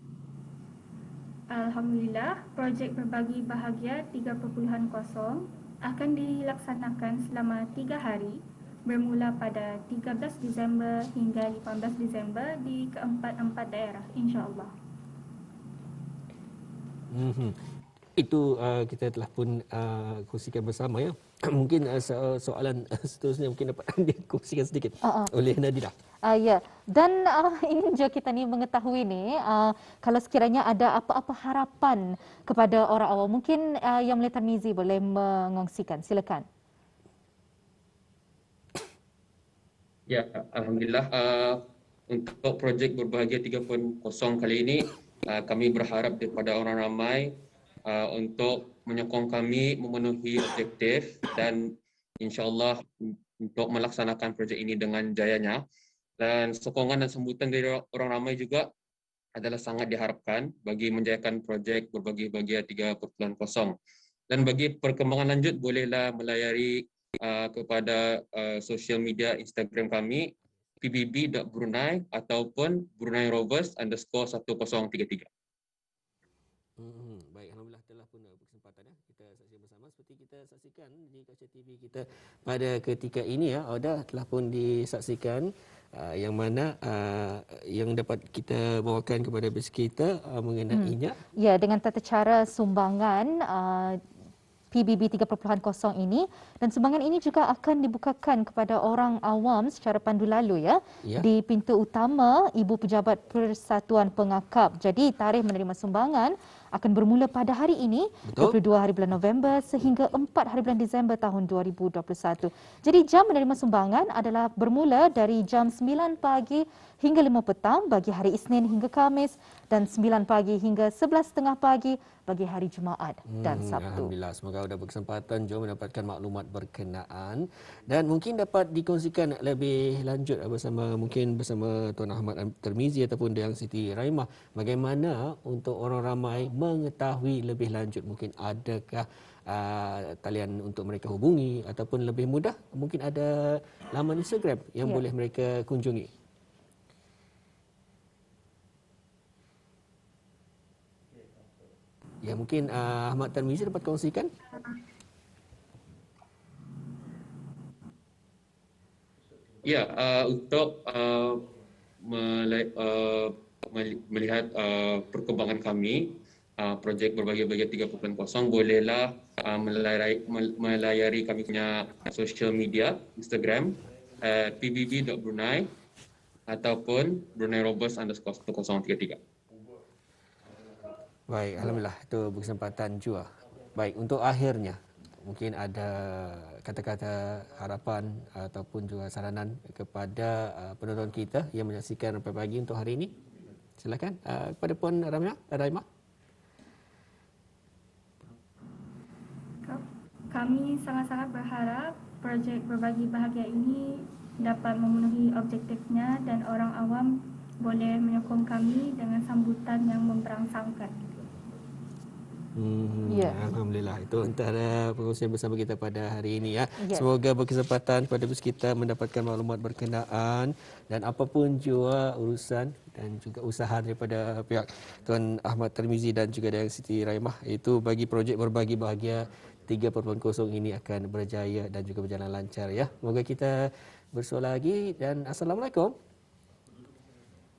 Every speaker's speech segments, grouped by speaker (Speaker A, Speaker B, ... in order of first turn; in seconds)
Speaker A: 1.5-14.7, 199.7-211.0
Speaker B: 17.1-17.6, 18.2-25.9, 76.8-91.2, 108.2-108.6, 123.3-146.1, 152.2-154.3, 181.3-193.1, 193.8-195.8, 212.5-235.9
Speaker C: 25.0-25.3, 26.2-36.5, 90.7-94.0, 94.7-124.1, 213.1-213.4, 216.8-217.1
Speaker D: 40.1-47.3, 47.9-55.6, 56.2-58.7, 59.3-63.8, 64.3-75.3, 159.6-161.5, 162.0-175.7, 176.5-179.2